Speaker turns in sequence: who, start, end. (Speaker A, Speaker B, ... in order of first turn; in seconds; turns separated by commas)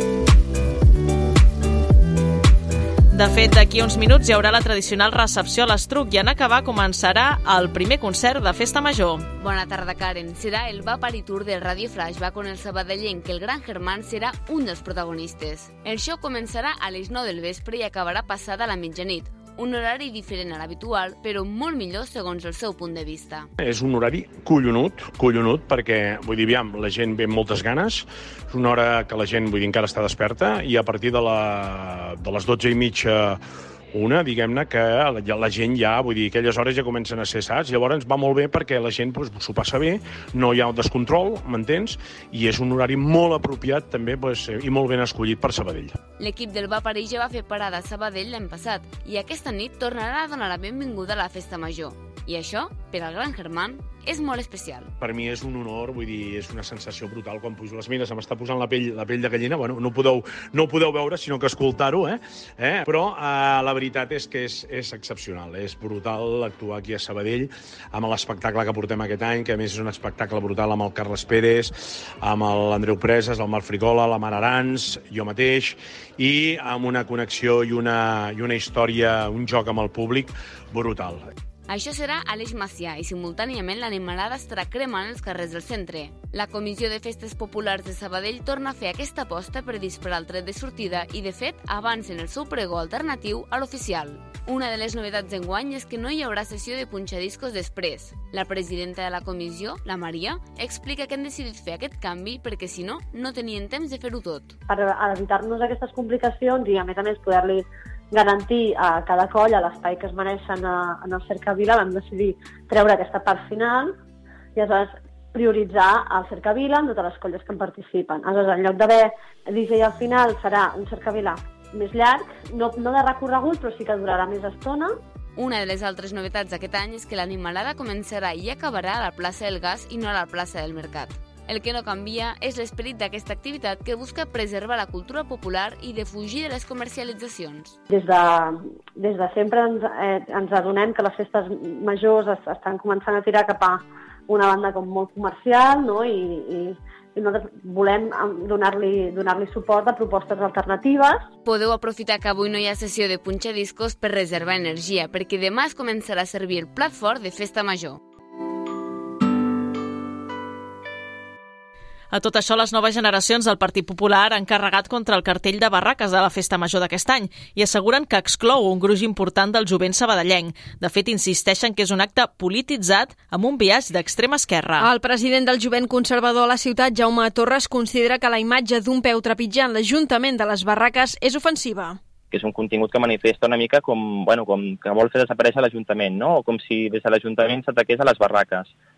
Speaker A: 3.1-9.3, Speaker B: 9.4-23.5, Speaker C: 23.6-33.4, Speaker C: 33.9-46.0, Speaker B: 46.2-54.9, Speaker C: 55.0-81.2, Speaker B: 81.7-104.5, Speaker D: 104.7-114.0, Speaker D: 114.6-124.9, Speaker B: 125.4-137.8, Speaker D: 137.9-151.3, Speaker B: 151.4-158.0, Speaker A: 162.1-174.9, Speaker E: 174.8-182.0, Speaker F: 182.3-188.7